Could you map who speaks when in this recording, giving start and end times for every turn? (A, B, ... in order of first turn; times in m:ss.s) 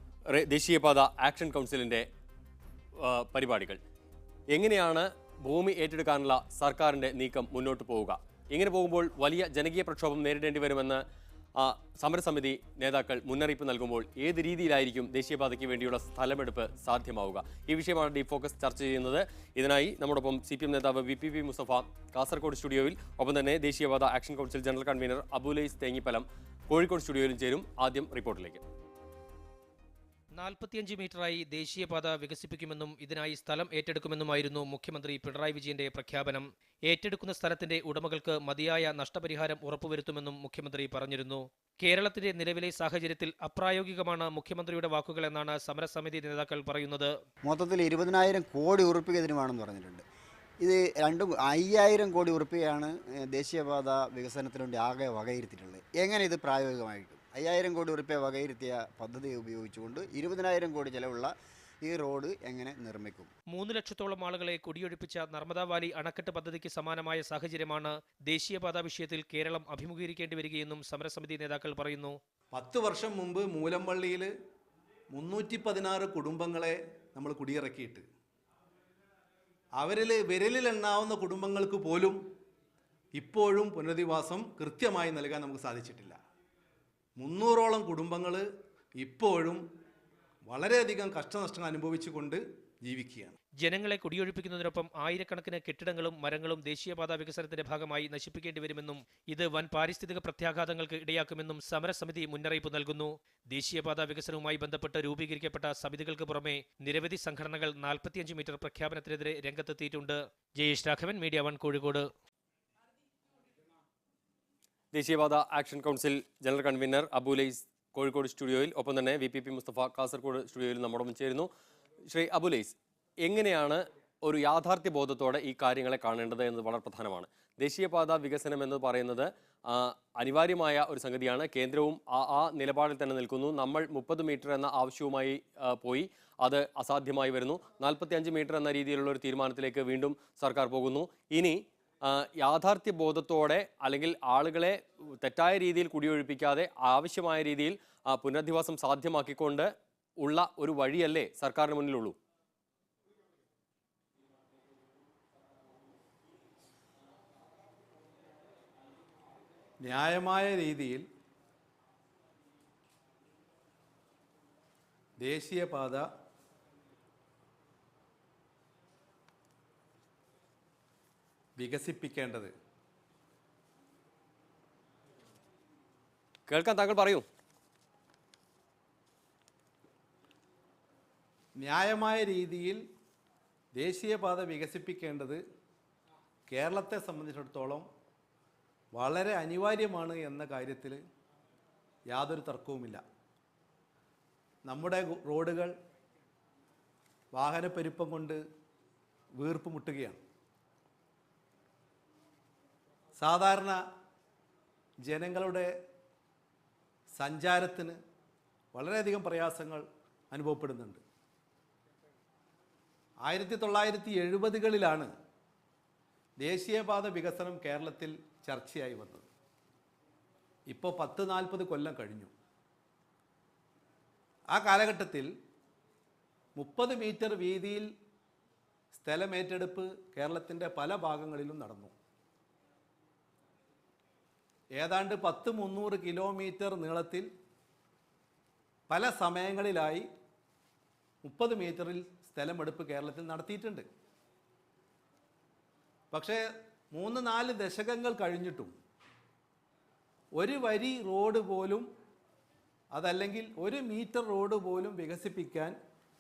0:00.3-0:02.0 A
0:03.0-0:03.8 A
0:04.5-0:11.0 A
0:11.6-0:28.6 A
0:30.4-0:47.1 B
0:47.4-0:50.0 C
0:50.6-1:03.3 C
1:03.5-1:12.2 B
1:12.5-1:14.3 D
1:15.1-1:18.1 D
1:19.8-1:22.2 D
1:23.2-1:26.2 D
1:27.2-1:28.5 D
1:29.0-1:29.6 D
1:30.5-1:33.4 D
1:33.6-1:52.1 B
1:54.9-2:01.5 A
2:02.1-2:32.2 A
2:39.8-2:41.0 D
2:45.2-2:46.0 D
2:51.6-2:52.5 D
2:56.5-2:57.2 A
3:01.6-3:02.8 D
3:03.8-3:05.4 D
3:06.5-3:07.9 D
3:09.0-3:11.0 D
3:12.1-3:13.0 D
3:14.7-3:15.7 D
3:17.4-3:18.4 D
3:19.4-3:20.2 D
3:23.2-3:23.8 D
3:25.0-3:25.7 D
3:27.2-3:28.0 D
3:28.7-3:31.0 D
3:33.3-3:35.1 D
3:36.4-3:39.3 D
3:40.7-3:42.3 D
3:44.5-3:45.3 D
3:46.6-3:47.9 D
3:48.9-3:51.9 D
3:54.8-3:57.3 D
3:58.9-4:00.1 D
4:01.2-4:03.9 D
4:06.1-4:08.7 D
4:10.4-4:11.9 D
4:12.9-4:15.8 D